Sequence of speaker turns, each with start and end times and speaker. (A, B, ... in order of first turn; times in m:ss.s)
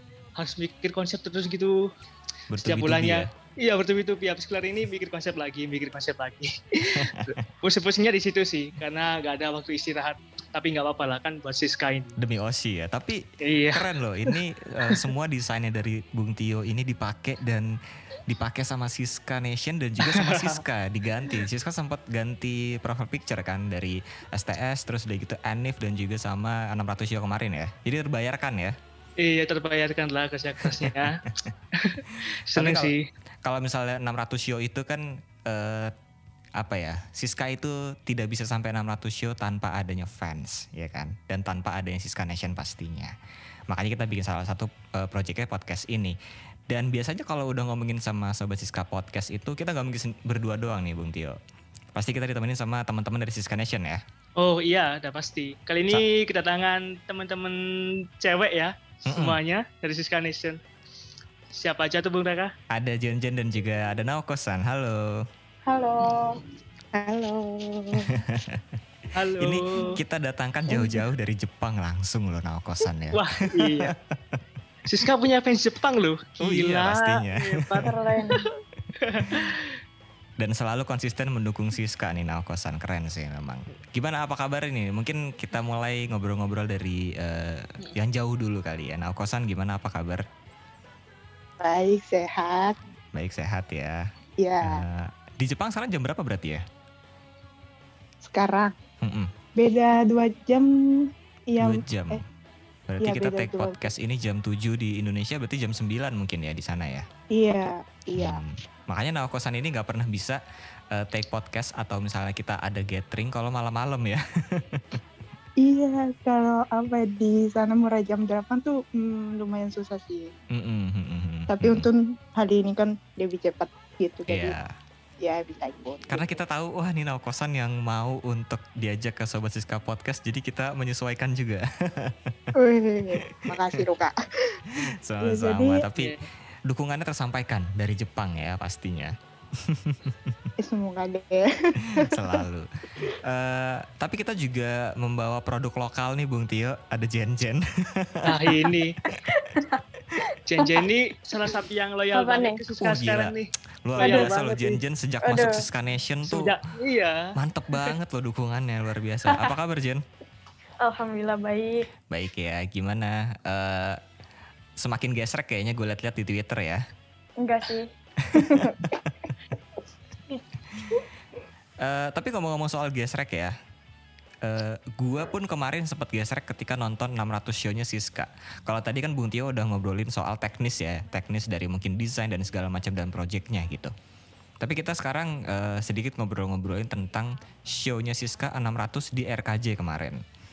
0:00.4-0:01.9 A
0:02.5-0:03.3 B
0:02.6-0:12.2 A
0:06.9-0:07.4 B
0:12.2-0:17.7 B
0:13.4-0:14.3 A
0:18.2-0:28.8 B
0:20.0-0:20.6 A
0:29.2-0:31.2 A
0:30.6-0:31.2 B
0:31.7-0:33.0 A
0:32.5-0:32.9 B
0:33.4-0:35.9 B
0:36.6-0:43.1 B
0:43.7-0:46.2 B
0:46.7-0:51.4 B
0:51.9-0:54.0 B
0:54.4-1:00.6 A
0:59.0-0:59.4 B
1:01.5-1:02.5 A
1:02.7-1:05.3 B
1:05.6-1:06.4 C
1:06.9-1:08.2 D
1:08.1-1:14.9 B
1:09.1-1:09.9 A
1:13.1-1:13.9 A
1:14.9-1:19.7 A
1:16.4-1:17.9 B
1:17.8-1:18.5 C
1:19.2-1:19.5 B
1:20.4-1:30.2 B
1:31.6-1:32.8 D
1:33.1-1:34.1 B
1:34.4-1:34.8 D
1:34.6-1:36.6 B
1:38.2-1:38.7 D
1:39.0-1:39.3 B
1:39.6-1:42.2 D
1:41.6-1:42.2 B
1:42.9-1:47.0 B
1:43.0-1:43.8 D
1:47.3-1:48.4 D
1:48.1-1:50.4 B
1:50.9-1:55.0 B
1:55.6-2:00.3 D
2:00.5-2:01.9 B
2:01.5-2:04.6 D
2:04.3-2:04.7 B
2:05.2-2:06.4 D
2:06.1-2:12.5 B
2:12.6-2:14.6 D
2:13.3-2:13.8 B
2:15.0-2:16.2 B
2:15.2-2:15.8 D
2:16.0-2:16.2 A
2:16.7-2:20.5 B
2:20.6-2:22.2 D
2:22.0-2:22.7 B
2:23.2-2:28.4 B
2:28.2-2:29.0 A
2:29.0-2:30.9 C
2:30.4-2:34.5 A
2:32.1-2:32.6 C
2:32.8-2:33.3 B
2:33.8-2:36.6 B
2:34.0-2:34.6 C
2:35.2-2:35.6 C
2:36.2-2:37.9 A
2:37.3-2:40.0 B
2:39.3-2:39.5 C
2:40.8-2:41.9 C
2:42.1-2:44.0 B
2:44.8-2:46.8 B
2:47.4-2:49.0 C
2:48.2-2:49.2 B
2:50.3-2:51.0 C
2:51.8-2:53.5 B
2:54.4-3:03.9 B
3:04.6-3:10.2 B